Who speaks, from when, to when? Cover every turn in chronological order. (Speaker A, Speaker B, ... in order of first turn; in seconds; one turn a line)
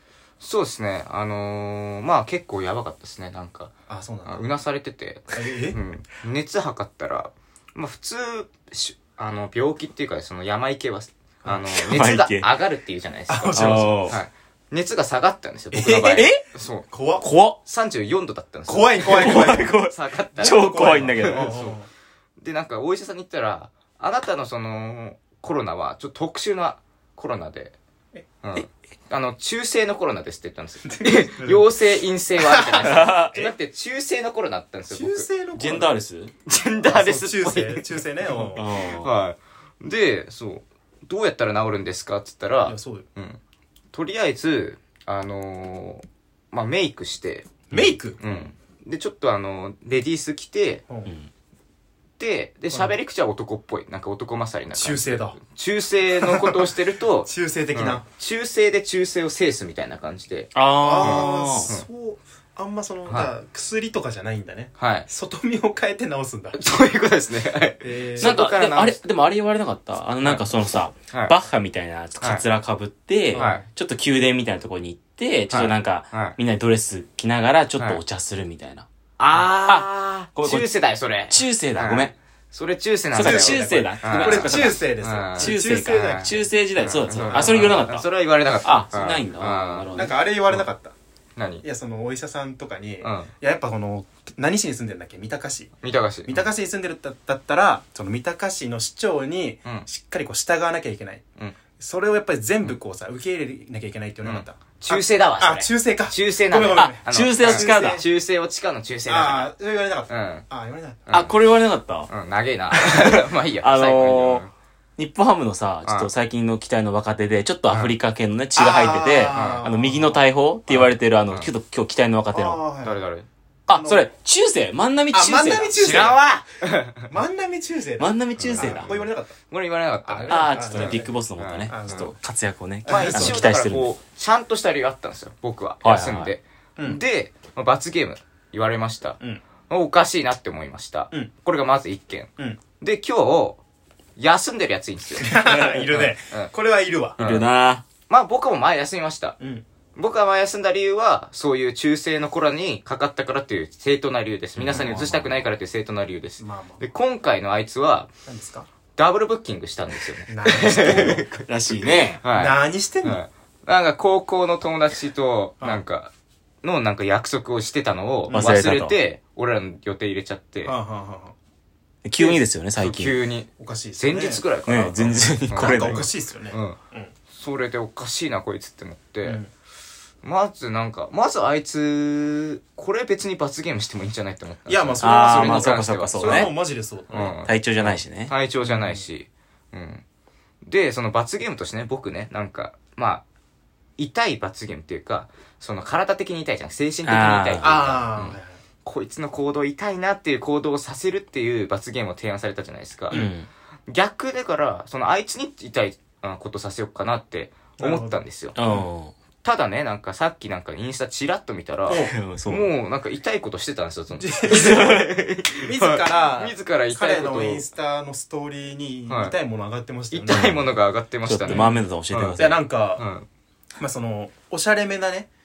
Speaker A: 0.4-3.7
Speaker B: 3.9-4.5
Speaker A: 4.2-16.9
Speaker B: 5.3-5.8
Speaker C: 11.7-12.5
Speaker B: 13.3-14.2
Speaker C: 13.5-14.2
Speaker B: 15.7-16.2
Speaker C: 15.9-16.4
Speaker B: 16.9-17.2
Speaker C: 17.2-17.6
Speaker A: 17.6-21.8
Speaker B: 18.7-19.8
Speaker C: 19.1-21.5
Speaker B: 20.4-21.9
Speaker A: 22.4-27.8
Speaker A: 28.4-35.3
Speaker B: 30.8-31.7
Speaker B: 32.4-33.5
Speaker C: 32.8-33.3
Speaker B: 34.9-35.9
Speaker C: 35.5-36.3
Speaker A: 36.5-43.4
Speaker B: 36.8-38.7
Speaker C: 38.5-39.1
Speaker B: 42.6-43.0
Speaker A: 43.9-47.6
Speaker B: 47.7-48.2
Speaker A: 48.2-50.8
Speaker A: 52.2-61.8
Speaker B: 52.7-53.0
Speaker B: 54.7-55.4
Speaker B: 56.2-56.7
Speaker B: 57.2-58.0
Speaker C: 60.5-61.7
Speaker B: 60.8-66.6
Speaker A: 64.8-65.1
Speaker A: 66.5-69.0
Speaker B: 67.8-68.3
Speaker C: 68.2-80.7
Speaker B: 73.3-73.6
Speaker A: 73.3-73.6
Speaker A: 75.5-76.3
Speaker A: 79.2-86.3
Speaker C: 81.3-82.1
Speaker C: 83.1-84.8
Speaker B: 83.2-86.4
Speaker C: 85.4-88.1
Speaker A: 86.8-89.9
Speaker B: 87.1-87.9
Speaker C: 88.6-90.2
Speaker B: 89.9-90.9
Speaker A: 91.4-91.6
Speaker B: 91.6-95.7
Speaker A: 93.0-93.3
Speaker A: 95.8-96.5
Speaker B: 96.2-101.2
Speaker B: 101.8-108.0
Speaker A: 104.2-109.5
Speaker C: 106.7-108.0
Speaker B: 109.1-111.1
Speaker A: 110.1-110.5
Speaker C: 111.1-112.1
Speaker A: 112.1-114.5
Speaker C: 112.7-122.6
Speaker B: 118.5-120.2
Speaker A: 119.3-119.6
Speaker A: 120.7-121.5
Speaker B: 122.3-123.0
Speaker A: 122.8-123.2
Speaker C: 123.7-125.7
Speaker B: 123.7-124.0
Speaker B: 125.1-126.2
Speaker A: 125.7-127.1
Speaker B: 127.1-129.4
Speaker C: 128.0-128.9
Speaker A: 128.4-132.1
Speaker B: 130.0-131.1
Speaker C: 130.3-133.9
Speaker B: 131.7-132.1
Speaker B: 132.8-133.6
Speaker A: 132.9-139.2
Speaker C: 135.8-136.3
Speaker A: 139.7-143.6
Speaker A: 144.2-145.4
Speaker B: 145.2-147.2
Speaker C: 145.5-145.8
Speaker A: 147.2-147.5
Speaker C: 147.2-147.8
Speaker A: 148.1-149.4
Speaker B: 149.4-149.6
Speaker A: 149.9-158.1
Speaker C: 154.6-155.4
Speaker B: 156.4-156.8
Speaker B: 158.2-158.7
Speaker A: 158.9-161.4
Speaker B: 160.3-161.2
Speaker C: 160.6-162.2
Speaker A: 162.2-166.1
Speaker B: 162.3-163.2
Speaker A: 166.6-170.7
Speaker B: 168.3-168.6
Speaker C: 168.3-168.9
Speaker B: 170.6-171.3
Speaker C: 172.0-173.2
Speaker A: 172.2-176.8
Speaker B: 173.6-174.4
Speaker C: 174.7-176.0
Speaker B: 175.5-177.1
Speaker A: 177.3-179.4
Speaker B: 179.2-179.5
Speaker A: 180.2-186.5
Speaker B: 184.7-187.4
Speaker C: 185.0-186.5
Speaker A: 187.1-190.0
Speaker C: 187.4-188.3
Speaker B: 188.6-189.1
Speaker A: 190.6-193.2
Speaker A: 194.0-203.2
Speaker C: 197.0-197.9
Speaker B: 197.6-198.5
Speaker C: 203.1-203.5
Speaker A: 203.9-208.6
Speaker B: 207.8-208.8
Speaker C: 208.5-209.1
Speaker A: 209.4-217.7
Speaker B: 211.9-212.1
Speaker C: 212.1-212.7
Speaker B: 214.1-220.7
Speaker C: 214.6-215.0
Speaker A: 219.1-219.3
Speaker A: 220.1-222.4
Speaker C: 220.3-220.6
Speaker C: 221.2-222.6
Speaker B: 221.5-223.1
Speaker A: 222.9-223.3
Speaker B: 223.8-225.3